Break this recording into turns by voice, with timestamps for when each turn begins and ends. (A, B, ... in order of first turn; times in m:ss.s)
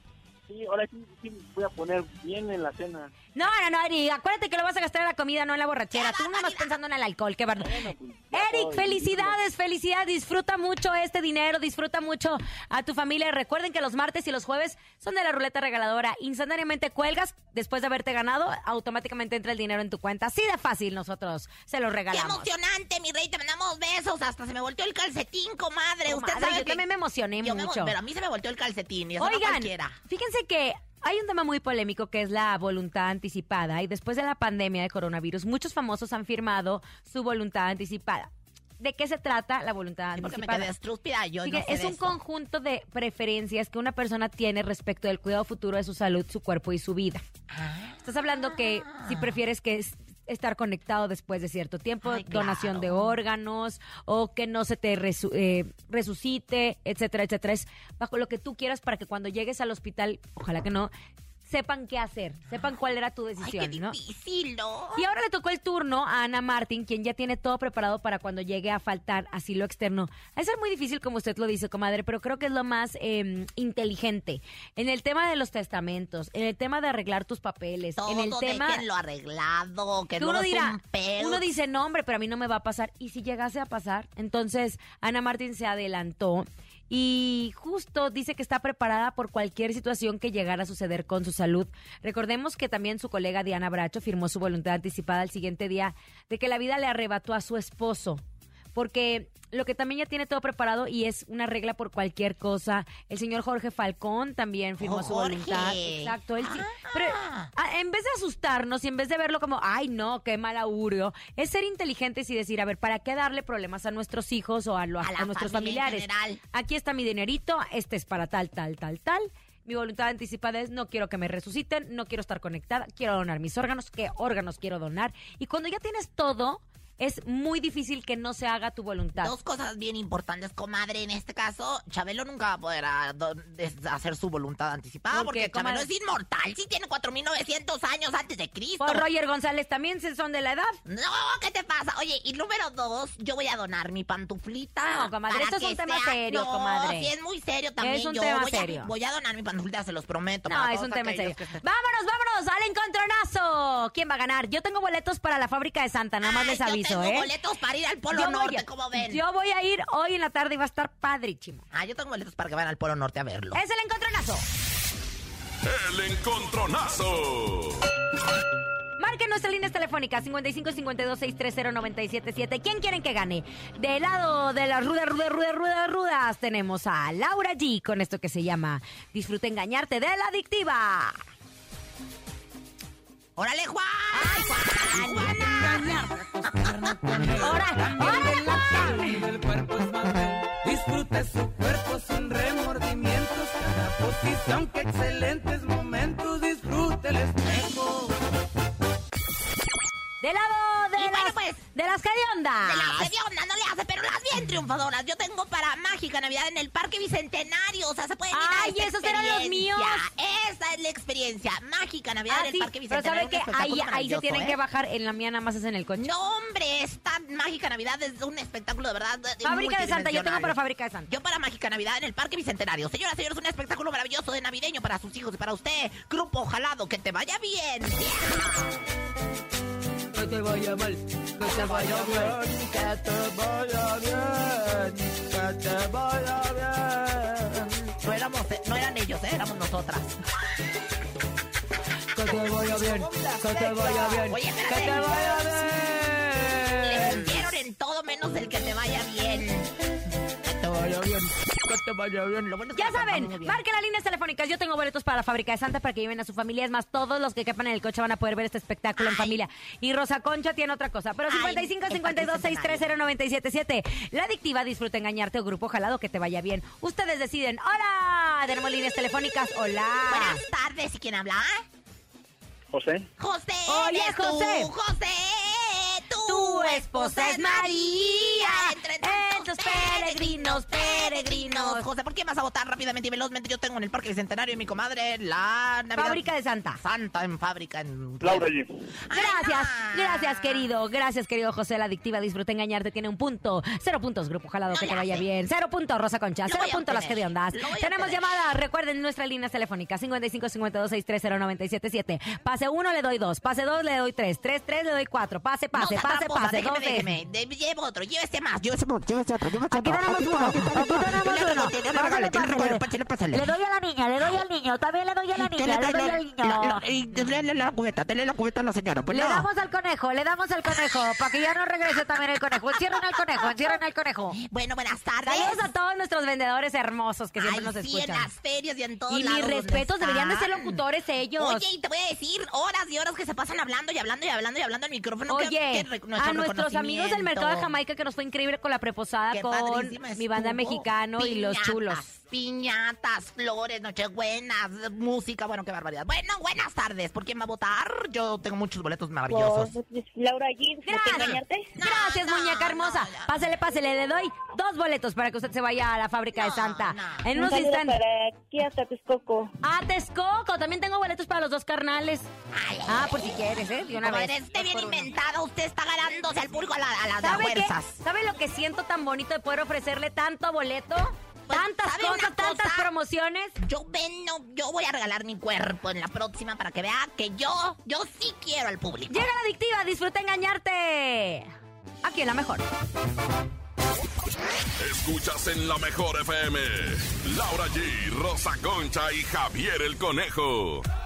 0:00.5-0:03.1 A
0:03.3-0:22.5 B
0:05.9-0:06.8 C
0:07.6-0:09.4 A
0:22.1-0:26.8 C
0:26.1-0:27.9 B
0:27.4-0:30.0 C
0:29.2-0:40.7 B
0:40.2-0:42.2 C
0:41.4-0:47.2 B
0:47.5-0:49.3 C
0:48.0-1:00.9 B
0:52.0-0:53.2 C
1:01.5-1:04.0 B
1:03.4-1:05.0 C
1:05.0-1:18.8 B
1:18.0-1:21.5 C
1:20.2-1:38.2 B
1:38.7-2:09.3 B
1:44.8-1:47.5 C
1:55.0-1:56.4 C
2:09.2-2:19.0 C
2:15.1-2:15.9 B
2:18.8-2:20.8 B
2:20.8-2:31.6 C
2:24.9-2:27.1 B
2:27.8-2:28.9 B
2:30.5-2:37.3 B
2:36.2-2:39.2 C
2:38.1-2:41.6 B
2:41.7-2:43.6 C
2:43.5-2:44.4 B
2:45.6-2:47.8 D
2:49.0-3:01.2 B
3:03.4-3:07.5 C
3:04.1-3:06.1 B
3:05.1-3:18.1 E
3:07.4-3:09.2 B
3:20.2-3:23.1 B
3:21.0-3:21.6 C
3:22.6-3:34.6 C
3:28.3-3:30.0 B
3:32.3-3:36.1 B
3:36.0-3:40.6 C
3:39.4-3:41.1 B
3:41.1-3:48.8 C
3:50.2-3:57.7 E
3:50.2-3:50.7 B
3:51.4-3:52.4 B
3:51.5-3:52.0 C
3:58.0-4:00.2 C
4:02.1-4:05.9 B
4:02.3-4:04.3 E
4:04.3-4:05.5 C
4:04.8-4:07.1 E
4:06.6-4:09.7 C
4:10.4-4:11.6 C
4:10.7-4:12.3 E
4:12.1-4:13.6 C
4:12.8-4:30.4 B
4:19.0-4:19.4 C
4:21.3-4:22.9 C
4:30.1-4:31.6 C
4:32.7-4:33.1 A
4:33.2-4:46.3 C
4:33.7-4:34.7 B
4:36.2-4:41.9 B
4:46.0-4:46.8 B
4:46.8-4:48.5 C
4:48.2-4:48.7 A
4:49.1-4:50.7 C
4:49.1-5:07.1 B
4:54.7-4:55.2 C
4:56.4-4:58.3 C
5:05.7-5:13.5 C
5:09.7-5:16.8 B
5:15.4-5:19.5 C
5:19.1-5:24.4 B
5:22.8-5:23.7 C
5:24.3-5:25.7 C
5:25.2-5:28.3 B
5:27.4-5:30.8 C
5:29.1-5:31.6 B
5:31.4-5:37.7 C
5:35.3-5:42.0 B
5:39.3-5:49.7 C
5:49.3-5:51.7 F
5:50.8-5:58.0 B
5:51.0-5:53.5 C
5:56.3-5:57.2 C
5:57.3-5:59.5 F
5:59.6-6:02.3 B
6:02.5-6:03.4 C
6:02.9-6:05.1 B
6:04.0-6:08.0 C
6:07.2-6:13.6 B
6:11.5-6:12.9 C
6:13.6-6:19.3 C
6:19.1-6:21.5 B
6:22.0-6:22.6 B
6:24.8-6:30.8 D